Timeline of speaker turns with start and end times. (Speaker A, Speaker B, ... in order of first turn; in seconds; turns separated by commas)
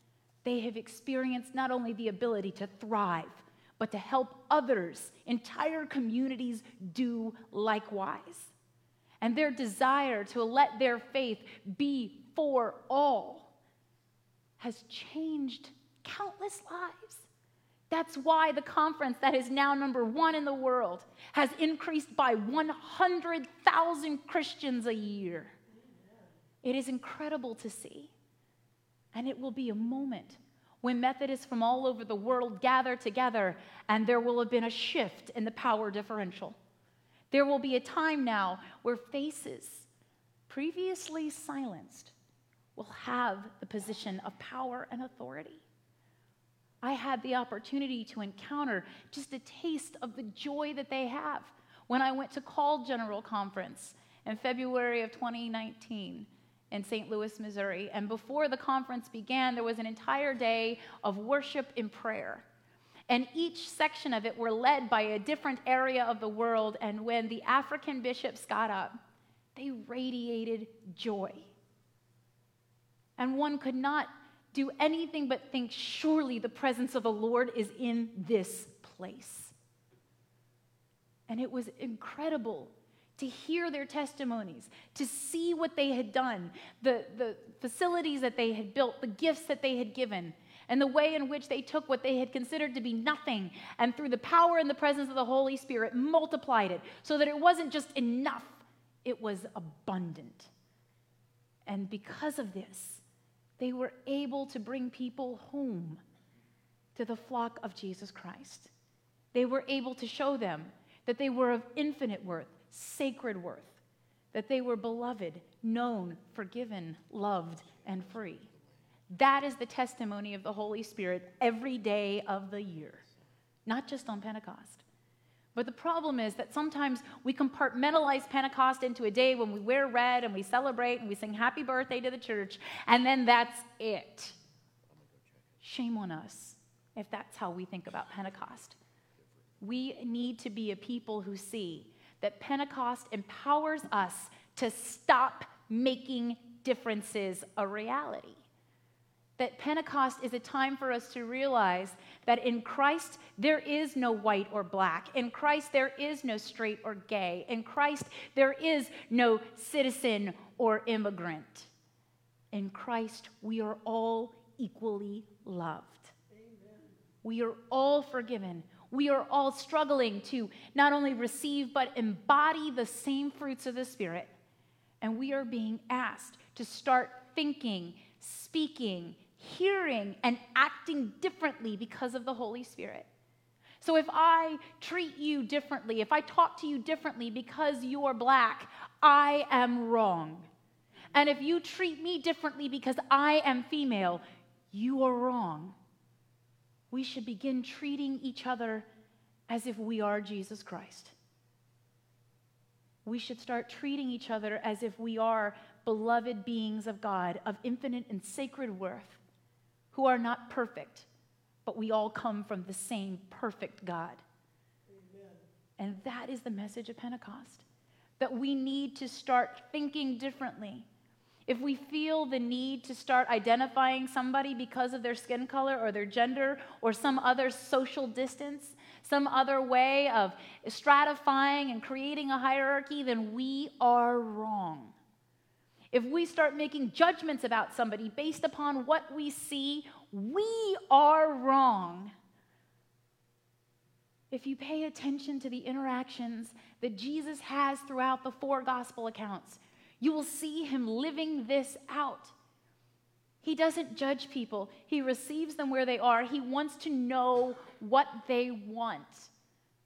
Speaker A: 0.4-8.5, Speaker A: 9.2-13.5, Speaker A: 14.6-17.3, Speaker A: 17.9-25.5, Speaker A: 26.6-28.1, Speaker A: 29.1-36.6, Speaker A: 37.3-39.9, Speaker A: 40.5-42.1, Speaker A: 42.8-45.6, Speaker A: 46.8-62.4, Speaker A: 63.1-69.0, Speaker A: 69.5-71.5, Speaker A: 73.2-79.5, Speaker A: 81.3-100.5, Speaker A: 101.7-103.0, Speaker A: 103.6-106.0, Speaker A: 106.9-108.7, Speaker A: 109.3-113.8, Speaker A: 114.3-118.5, Speaker A: 119.1-123.0, Speaker A: 123.7-124.8, Speaker A: 125.5-134.3, Speaker A: 135.6-138.8, Speaker A: 139.6-148.4, Speaker A: 149.4-161.7, Speaker A: 162.5-166.1, Speaker A: 167.2-174.3, Speaker A: 175.0-183.1, Speaker A: 183.8-190.5, Speaker A: 191.1-195.8, Speaker A: 196.9-198.8, Speaker A: 199.5-201.1, Speaker A: 203.0-209.2, Speaker A: 209.9-211.1, Speaker A: 211.6-214.2, Speaker A: 215.8-217.6, Speaker A: 218.2-220.9, Speaker A: 221.5-234.9, Speaker A: 235.9-242.1, Speaker A: 244.3-252.3, Speaker A: 253.4-259.3